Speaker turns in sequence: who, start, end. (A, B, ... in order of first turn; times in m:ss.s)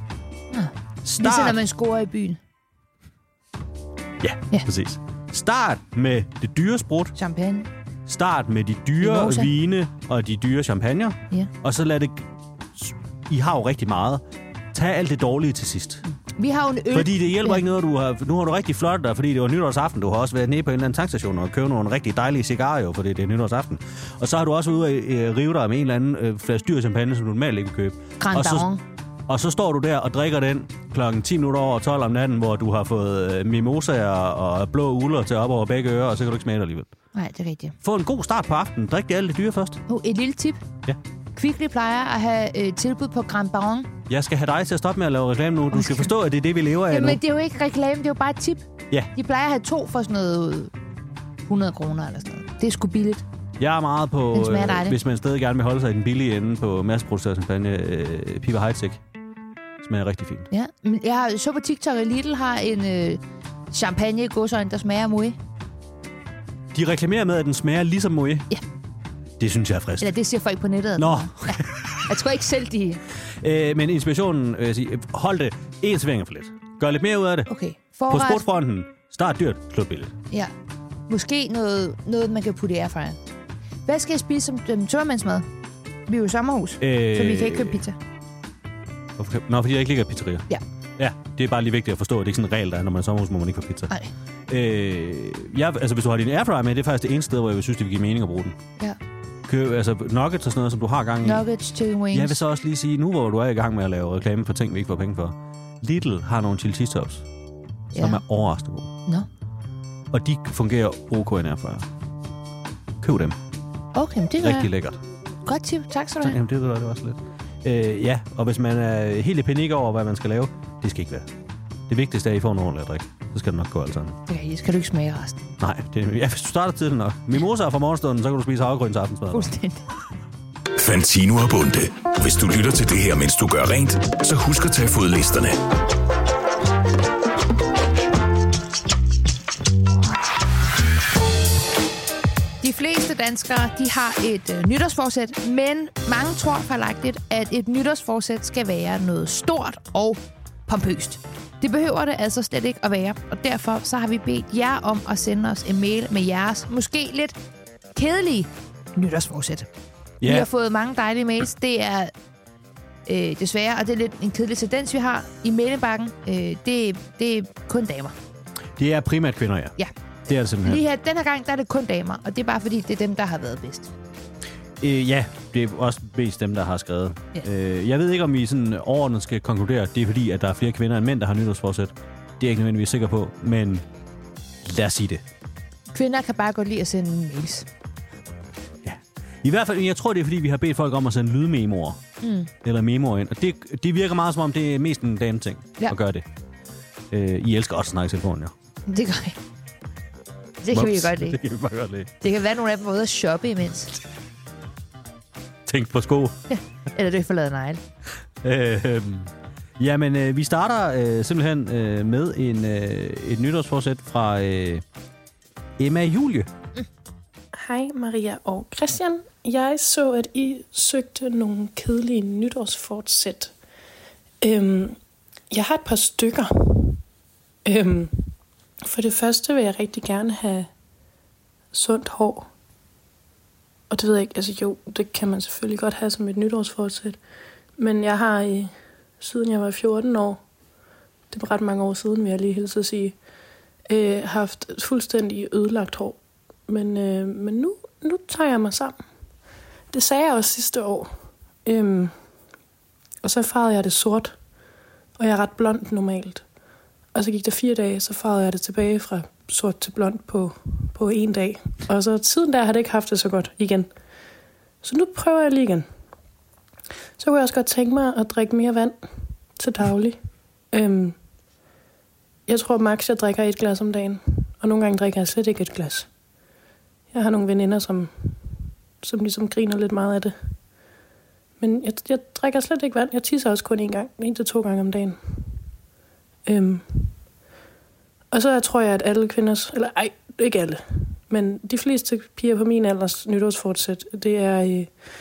0:00.5-0:02.4 A
0:01.0-0:01.6 B
0:04.2-0:07.1 B
0:07.2-0:07.7 A
0:08.1-0:16.0 B
0:09.0-0:09.5 A
0:16.1-0:17.6 A
0:16.9-0:28.7 B
0:28.2-0:28.8 A
0:29.3-0:36.9 B
0:37.2-0:37.8 A
0:37.8-0:39.8 B
0:39.9-0:40.6 A
0:41.4-0:43.9 A
0:44.1-0:47.2 B
0:45.7-0:46.1 A
0:46.9-0:50.7 A
0:51.5-0:53.2 A
0:53.6-0:59.0 B
0:54.3-0:55.0 A
0:59.8-1:00.5 B
1:00.5-1:03.2 A
1:03.7-1:05.4 A
1:06.7-1:08.5 B
1:09.4-1:10.1 B
1:10.0-1:13.0 A
1:11.0-1:12.1 B
1:13.4-1:17.5 B
1:17.5-1:18.4 A
1:18.1-1:20.1 B
1:21.1-1:23.2 A
1:23.9-1:25.5 A
1:26.1-1:28.0 A
1:26.8-1:27.8 B
1:29.2-1:33.9 B
1:34.5-1:38.6 B
1:39.5-1:41.5 B
1:41.2-1:42.4 A
1:42.1-1:47.2 B
1:47.9-1:48.2 A
1:47.9-1:48.9 B
1:50.1-1:51.9 B
1:53.0-1:53.4 B
1:53.9-1:54.7 A
1:54.4-1:55.0 B
1:55.4-1:56.4 A
1:56.2-2:01.3 B
2:01.9-2:04.2 B
2:04.3-2:05.4 A
2:05.6-2:09.5 B
2:09.3-2:09.8 A
2:10.8-2:15.6 C
2:22.6-2:37.4 A
2:38.0-2:39.7 A
2:40.2-2:40.5 B
2:40.2-2:42.1 A
2:43.1-2:48.1 A
2:48.8-2:49.8 B
2:50.3-2:50.8 B
2:50.6-2:53.9 A
2:54.8-3:03.8 B
3:04.6-3:05.2 B
3:05.9-3:07.7 A
3:08.8-3:12.0 B
3:12.2-3:12.5 A
3:12.6-3:16.3 B
3:17.1-3:18.5 B
3:18.9-3:19.4 A
3:20.6-3:21.4 A
3:20.7-3:22.1 B
3:22.2-3:24.0 A
3:25.7-3:26.4 B
3:26.5-3:27.8 A
3:28.4-3:34.8 B
3:35.8-3:36.5 B
3:37.5-3:43.5 D
3:44.4-3:45.0 D
3:45.5-3:47.0 D
3:47.6-3:48.3 D
3:48.8-3:50.7 D
3:51.7-3:52.5 D
3:53.9-3:57.2 D
3:57.8-4:00.4 D
4:01.3-4:03.2 D
4:03.9-4:09.0 D
4:09.9-4:11.1 D
4:11.6-4:12.1 D
4:13.2-4:14.4 D
4:15.2-4:16.5 D
4:17.1-4:23.9 D
4:24.8-4:25.9 D
4:27.2-4:29.0 D
4:29.6-4:30.2 D
4:30.7-4:31.2 D
4:32.5-4:36.1 D
4:37.1-4:38.4 D
4:39.0-4:40.4 D
4:41.6-4:45.2 D
4:46.5-4:47.1 D
4:48.3-4:54.9 D